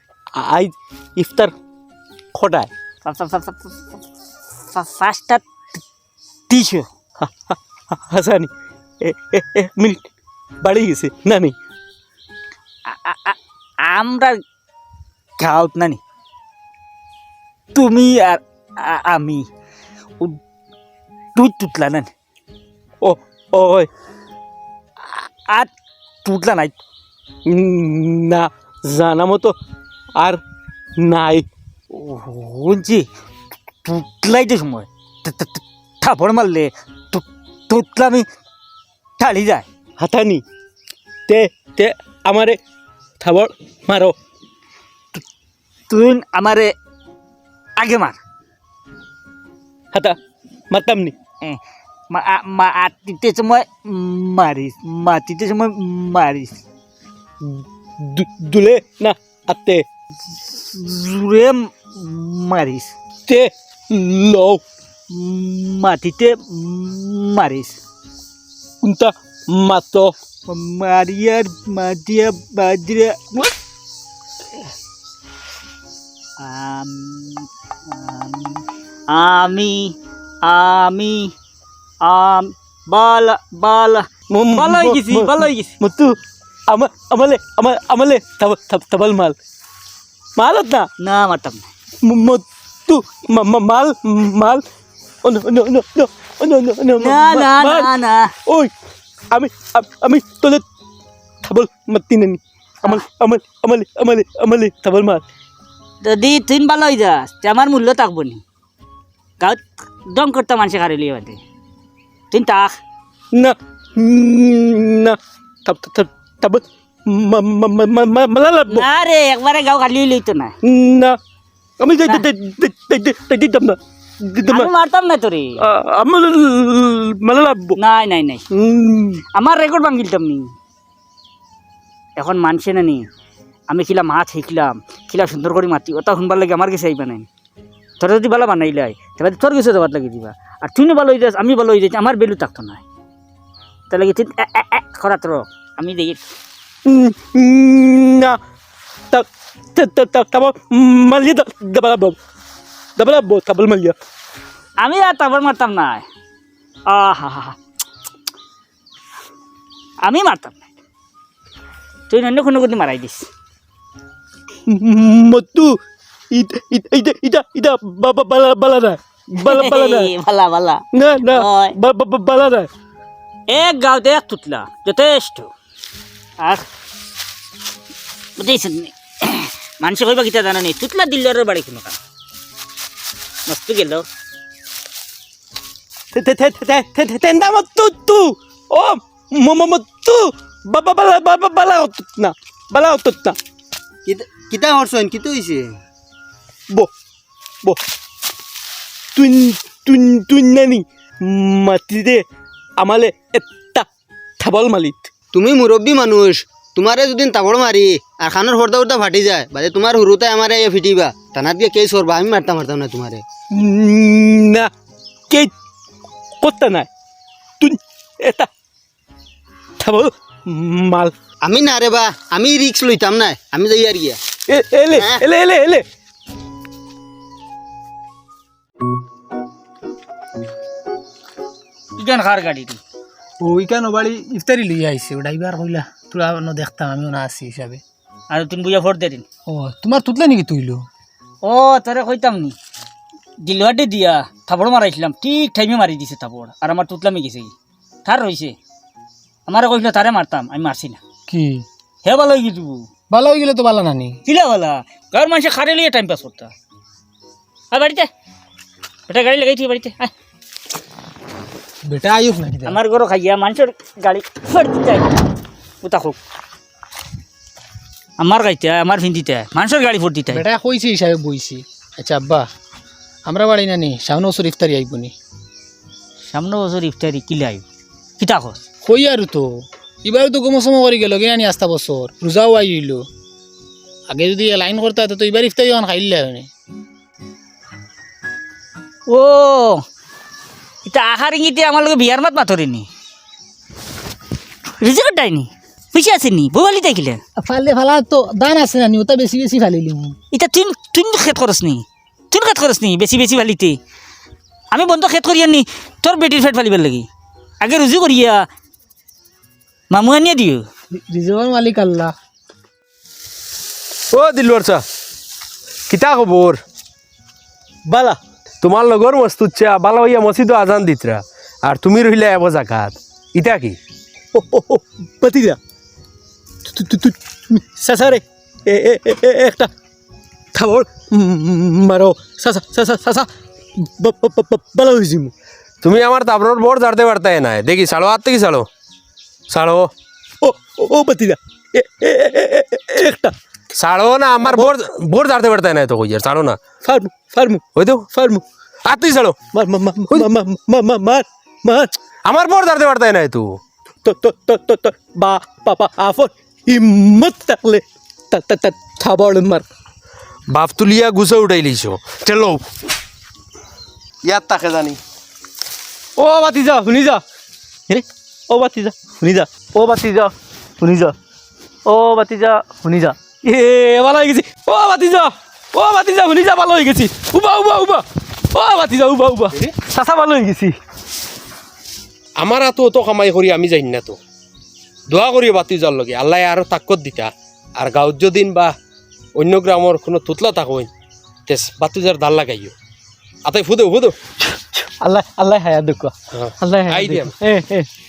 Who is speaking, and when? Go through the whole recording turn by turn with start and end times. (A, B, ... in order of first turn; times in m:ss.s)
0:00.3-0:01.5 A
0:02.3-0:02.7 A
0:03.0-0:03.9 B
0:04.7-0:05.8 B
0:06.5-0:06.9 B
0:07.2-0:08.5 A
0:09.0-0:10.0 A
0:10.6-0:11.5 A
0:12.8-0:14.4 B
0:15.4-0:16.0 B
0:17.7-0:19.5 B
0:21.3-0:22.1 B
0:23.0-0:23.9 A
0:25.0-0:25.7 B
0:26.2-0:26.8 B
0:27.4-0:29.6 A
0:30.2-0:30.4 A
0:31.0-0:31.4 A
0:31.9-0:33.0 B
0:33.8-0:38.2 B
0:39.2-0:39.6 B
0:40.0-0:40.4 A
0:41.3-0:42.6 A
0:43.2-0:44.1 A
0:45.9-0:46.7 B
0:47.8-0:48.2 B
0:50.7-0:51.1 A
0:52.1-0:56.6 B
0:57.4-0:59.8 A
1:00.3-1:02.9 B
1:03.3-1:04.6 A
1:05.1-1:07.8 B
1:08.8-1:10.1 A
1:10.5-1:13.4 B
1:16.4-1:21.3 B
1:22.0-1:25.8 B
1:24.3-1:26.2 A
1:26.7-1:29.4 A
1:30.4-1:30.9 A
1:31.0-1:31.7 B
1:32.0-1:34.6 A
1:35.2-1:37.9 A
1:37.0-1:38.3 B
1:38.4-1:38.7 A
1:39.3-1:40.6 A
1:41.4-1:45.2 A
1:46.0-1:48.4 B
1:49.4-1:51.4 B
1:52.3-1:52.8 B
1:53.3-1:58.8 A
1:58.7-2:00.5 B
2:00.6-2:01.2 A
2:01.8-2:04.7 A
2:04.5-2:05.6 B
2:05.6-2:07.8 A
2:07.8-2:08.4 B
2:08.5-2:09.2 A
2:09.3-2:10.5 B
2:12.2-2:13.0 B
2:13.7-2:17.3 B
2:18.0-2:22.8 B
2:23.9-2:26.2 B
2:26.8-2:28.4 A
2:29.1-2:32.2 A
2:33.0-2:34.0 A
2:34.8-2:36.0 B
2:36.9-2:37.6 B
2:40.0-2:40.6 B
2:42.1-2:43.3 B
2:44.7-2:45.8 A
2:46.3-2:50.1 A
2:49.4-2:51.8 B
2:50.9-2:52.7 A
2:53.5-2:55.5 B
2:56.4-2:56.6 B
2:58.4-3:02.0 B
3:03.5-3:04.0 B
3:06.1-3:13.4 A
3:14.1-3:15.7 C
3:19.2-3:22.2 A
3:22.8-3:23.8 A
3:24.4-3:25.1 A
3:25.3-3:33.2 C
3:33.5-3:34.7 A
3:36.4-3:36.9 A
3:37.6-3:38.5 A
3:39.8-3:41.1 A
3:41.4-3:44.2 C
3:44.5-3:45.8 A
3:45.0-3:45.2 C
3:52.0-3:52.8 B
3:53.4-3:57.8 D
3:58.3-3:59.2 B
3:59.5-4:00.8 D
4:01.4-4:02.5 B
4:03.4-4:07.5 B
4:08.0-4:08.6 B
4:09.5-4:11.0 B
4:11.3-4:11.6 D
4:12.0-4:12.9 B
4:13.1-4:14.2 D
4:14.2-4:16.5 B
4:17.7-4:18.1 B
4:19.1-4:20.1 B
4:21.8-4:22.8 D
4:22.6-4:25.2 B
4:25.8-4:26.2 B
4:28.2-4:30.4 B
4:30.3-4:32.4 D
4:33.2-4:35.1 D
4:36.3-4:37.6 B
4:38.2-4:38.6 B
4:38.8-4:43.0 D
4:44.1-4:46.5 D
4:49.1-4:49.8 B
4:50.8-4:52.9 B
4:54.8-4:57.2 B
4:57.4-5:00.2 D
5:00.3-5:03.8 B
5:04.7-5:07.1 B
5:07.6-5:08.4 B
5:09.9-5:10.6 B
5:11.1-5:12.1 D
5:14.1-5:14.8 E
5:15.9-5:16.6 E
5:17.9-5:18.2 A
5:18.6-5:23.8 E
5:24.3-5:25.6 A
5:26.6-5:29.7 A
5:30.5-5:35.3 A
5:35.8-5:38.7 E
5:39.5-5:39.9 E
5:40.4-5:43.3 A
5:43.7-5:46.6 E
5:44.4-5:44.7 A
5:46.8-5:48.4 A
5:47.7-5:48.1 E
5:48.8-5:49.4 E
5:49.5-5:51.9 A
5:52.2-5:53.6 E
5:54.0-5:59.6 A
6:00.5-6:02.6 E
6:04.2-6:05.0 E
6:06.2-6:07.2 A
6:07.9-6:11.1 A
6:11.8-6:20.8 A
6:22.4-6:24.2 E
6:25.1-6:28.7 E
6:29.3-6:30.9 E
6:31.5-6:32.7 E
6:33.4-6:34.2 E
6:34.4-6:37.9 A
6:36.3-6:37.3 E